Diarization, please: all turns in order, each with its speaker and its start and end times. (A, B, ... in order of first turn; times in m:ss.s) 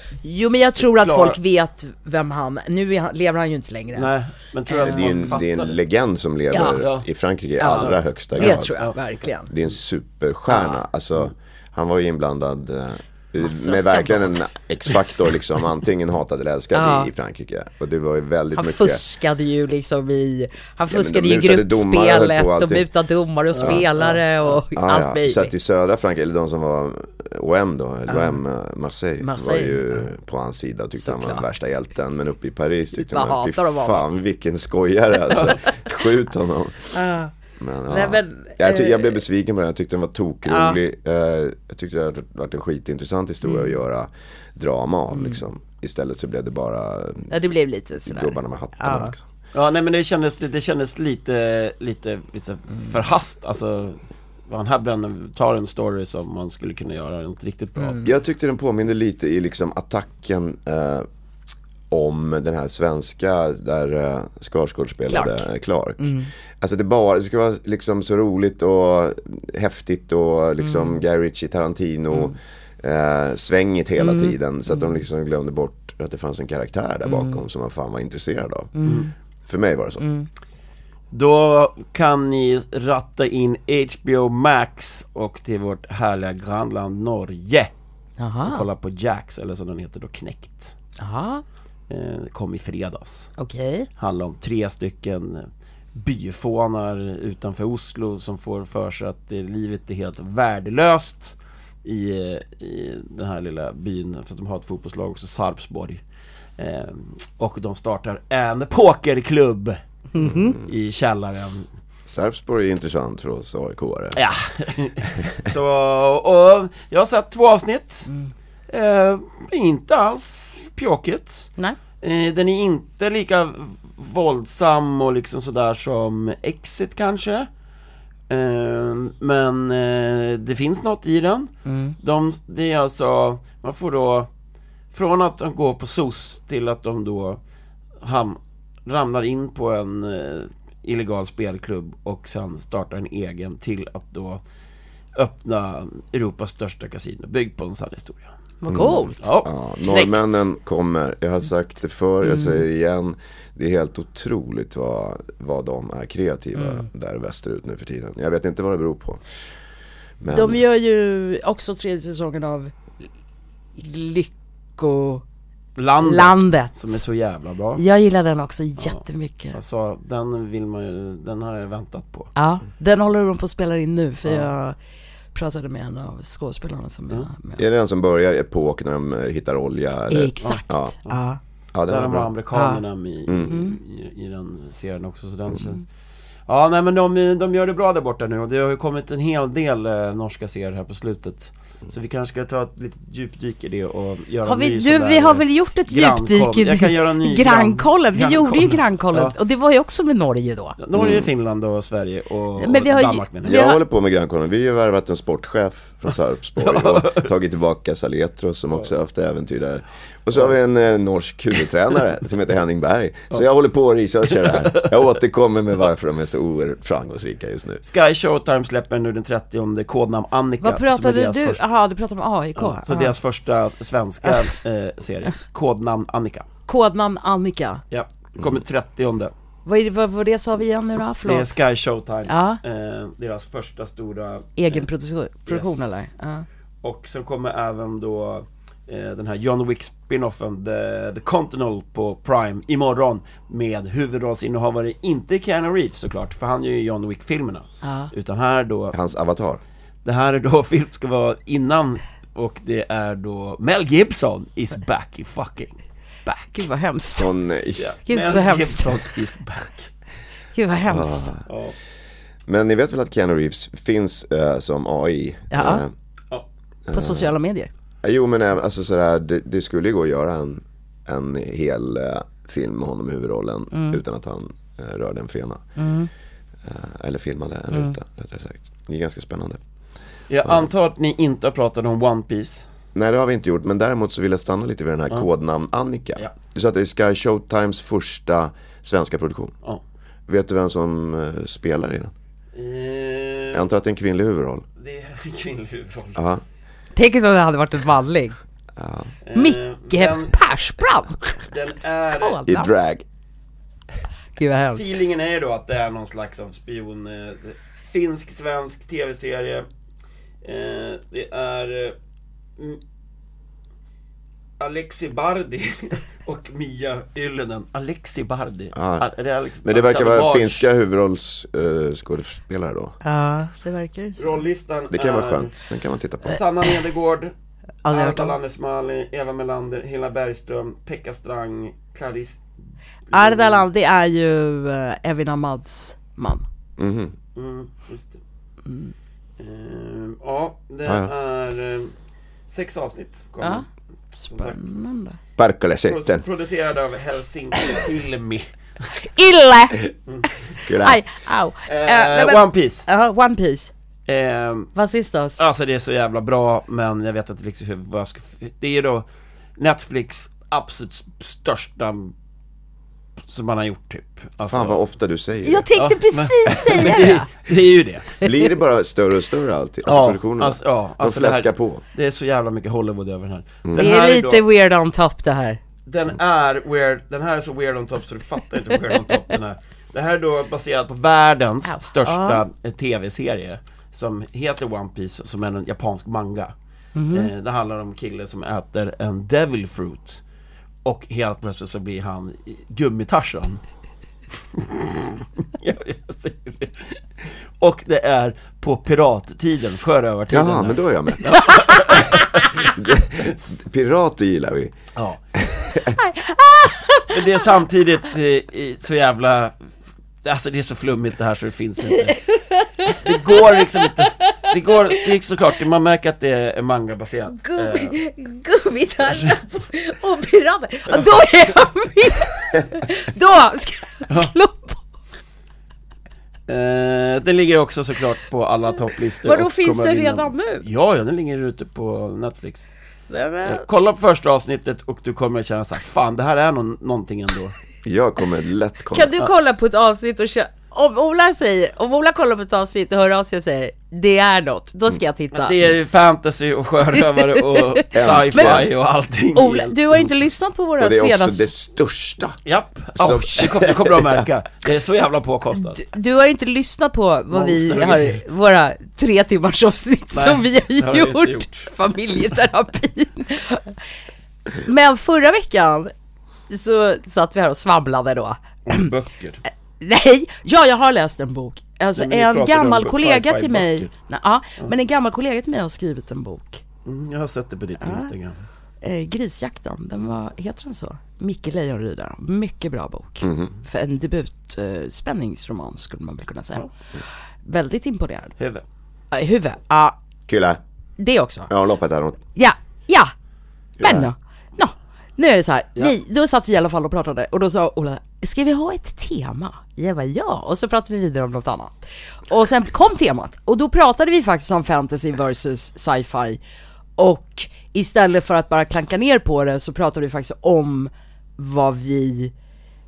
0:00.2-0:04.1 A
0:00.8-0:01.4 B
0:04.0-0:05.8 B
0:04.7-0:05.3 A
0:04.8-0:08.8 C
0:06.5-0:06.8 A
0:06.6-0:07.1 B
0:07.6-0:09.5 A
0:07.8-0:08.9 B
0:09.5-0:19.0 C
0:13.4-0:14.4 A
0:16.7-0:17.1 A
0:18.6-0:25.5 A
0:20.9-0:22.9 C
0:23.5-0:24.2 B
0:23.6-0:23.8 C
0:24.7-0:37.0 C
0:28.1-0:28.4 A
0:29.2-0:30.0 A
0:31.0-0:31.4 A
0:33.0-0:34.0 A
0:36.9-0:37.3 A
0:37.6-0:47.3 C
0:37.9-0:39.2 A
0:40.5-0:40.8 A
0:43.4-0:43.7 A
0:45.1-0:45.4 A
0:47.3-0:49.1 A
0:48.1-0:49.2 C
0:49.5-0:58.0 B
0:57.8-0:58.1 A
0:58.0-1:01.1 C
1:01.9-1:18.8 C
1:05.1-1:05.5 A
1:06.0-1:06.3 A
1:10.6-1:11.0 A
1:14.0-1:14.9 A
1:17.1-1:17.4 A
1:18.8-1:19.1 A
1:18.8-1:19.1 B
1:19.5-1:20.0 C
1:20.0-1:20.3 A
1:21.1-1:27.7 B
1:28.2-1:28.6 A
1:28.4-1:30.8 B
1:31.0-1:31.4 A
1:31.9-1:33.3 B
1:33.4-1:33.9 A
1:34.0-1:46.0 B
1:46.6-1:49.8 B
1:50.1-1:50.6 A
1:50.2-1:50.6 C
1:50.6-1:51.7 B
1:52.1-1:54.2 C
1:54.2-1:58.1 B
1:58.7-2:01.5 B
2:02.0-2:07.5 B
2:08.3-2:14.3 B
2:11.7-2:12.0 A
2:14.9-2:17.4 B
2:18.0-2:24.4 B
2:25.2-2:28.3 B
2:28.6-2:29.2 A
2:28.7-2:39.2 C
2:29.2-2:30.2 B
2:32.3-2:32.6 A
2:40.2-2:40.6 C
2:40.3-2:42.7 A
2:43.8-2:45.2 A
2:45.8-2:47.8 B
2:46.0-2:47.0 A
2:47.8-2:49.6 A
2:49.5-2:52.3 B
2:52.4-2:54.8 A
2:55.3-2:57.6 A
2:57.6-3:01.0 C
3:00.1-3:01.4 A
3:00.4-3:01.2 B
3:01.7-3:02.3 C
3:01.9-3:05.8 B
3:02.5-3:02.8 A
3:03.3-3:03.5 C
3:03.5-3:03.8 A
3:06.5-3:19.3 B
3:14.5-3:20.8 A
3:20.8-3:23.7 B
3:20.9-3:21.3 C
3:22.6-3:23.8 A
3:23.4-3:37.8 C
3:26.6-3:27.3 B
3:34.4-3:34.9 B
3:37.8-3:41.6 B
3:40.6-3:43.1 A
3:42.6-3:46.5 B
3:46.7-3:47.8 A
3:47.9-3:49.3 B
3:49.7-3:51.5 A
3:51.2-3:54.9 B
3:52.3-3:52.6 A
3:54.6-3:56.4 A
3:55.5-3:55.9 B
3:56.8-4:09.0 B
4:07.8-4:08.1 A
4:08.9-4:09.6 C
4:10.0-4:15.8 B
4:16.3-4:16.5 B
4:16.5-4:17.3 A
4:17.2-4:17.9 C
4:17.8-4:19.9 B
4:18.1-4:19.0 A
4:20.6-4:21.3 A
4:20.9-4:21.4 C
4:21.5-4:21.8 B
4:22.5-4:25.9 C
4:25.5-4:25.8 A
4:26.9-4:27.3 C
4:26.9-4:27.7 A
4:28.0-4:35.6 C
4:33.7-4:34.0 A
4:35.8-4:36.1 A
4:36.6-4:39.6 C
4:40.3-4:42.7 B
4:43.0-4:49.5 C
4:50.3-4:52.1 C
4:52.6-4:53.7 B
4:53.5-4:54.6 C
4:54.8-4:56.2 B
4:56.2-4:56.4 C
4:57.0-4:58.4 A
4:58.8-4:59.1 C
4:59.2-5:00.4 B
4:59.3-5:01.4 A
5:01.4-5:02.4 B
5:02.2-5:02.7 A
5:02.5-5:03.0 C
5:04.4-5:04.9 A
5:04.8-5:09.7 B
5:10.4-5:12.0 B
5:14.6-5:20.7 B
5:18.7-5:19.1 C
5:19.6-5:23.0 C
5:23.0-5:24.4 A
5:24.2-5:25.5 B
5:24.9-5:26.4 C
5:26.2-5:27.3 B
5:27.8-5:28.4 A
5:27.9-5:32.4 B
5:33.1-5:33.6 B
5:33.1-5:36.5 A
5:36.8-5:37.2 C
5:37.4-5:38.2 B
5:38.7-5:38.9 A
5:39.4-5:41.9 B
5:40.8-5:41.1 C
5:42.5-5:43.6 B
5:44.2-5:45.2 A
5:44.3-5:44.6 B
5:45.4-5:46.2 C
5:45.8-5:48.5 B
5:49.0-5:53.7 A
5:50.6-5:51.0 C
5:51.7-5:52.9 B
5:54.1-5:54.7 B
5:54.8-5:55.4 A
5:55.4-6:02.1 B
6:03.3-6:04.8 B
6:04.5-6:05.7 C
6:05.4-6:07.3 A
6:05.8-6:08.1 B
6:08.2-6:11.8 C
6:09.9-6:14.4 B
6:13.8-6:15.6 A
6:15.9-6:26.5 B
6:21.6-6:22.4 A
6:27.0-6:27.3 A
6:27.1-6:30.2 B
6:30.8-6:33.6 B
6:34.5-6:42.7 B
6:40.3-6:41.3 C
6:42.8-6:44.8 C
6:45.3-6:46.0 C
6:46.0-6:47.4 A
6:47.1-6:49.6 B
6:50.2-6:52.2 B
6:52.0-6:54.5 A
6:52.9-6:58.0 B
6:57.4-7:04.8 A
6:59.1-6:59.4 B
7:06.5-7:12.7 B
7:09.2-7:10.6 A
7:13.1-7:13.6 A
7:13.4-7:17.6 B
7:17.8-7:19.1 C
7:18.9-7:25.6 A
7:25.3-7:30.1 B
7:27.1-7:27.8 A
7:27.9-7:28.7 C
7:28.3-7:28.6 A
7:29.4-7:31.5 A
7:30.8-7:32.4 C
7:32.5-7:35.9 B
7:33.0-7:34.2 C
7:33.0-7:33.5 A
7:35.7-7:43.8 A
7:37.3-7:38.2 B
7:40.1-7:41.7 B
7:44.6-7:45.9 A
7:46.5-7:48.9 A
7:48.7-7:49.4 B
7:49.8-7:56.6 A
7:52.0-7:53.9 B
7:56.8-7:58.4 B
7:57.8-7:58.1 A
7:58.8-8:06.7 A
8:03.2-8:03.5 C
8:07.4-8:08.4 A
8:08.4-8:08.6 B
8:09.1-8:10.0 A
8:10.3-8:10.6 C
8:11.0-8:11.5 A
8:11.5-8:12.2 C
8:12.4-8:13.1 A
8:13.8-8:14.1 C
8:13.8-8:26.4 A
8:27.0-8:32.3 A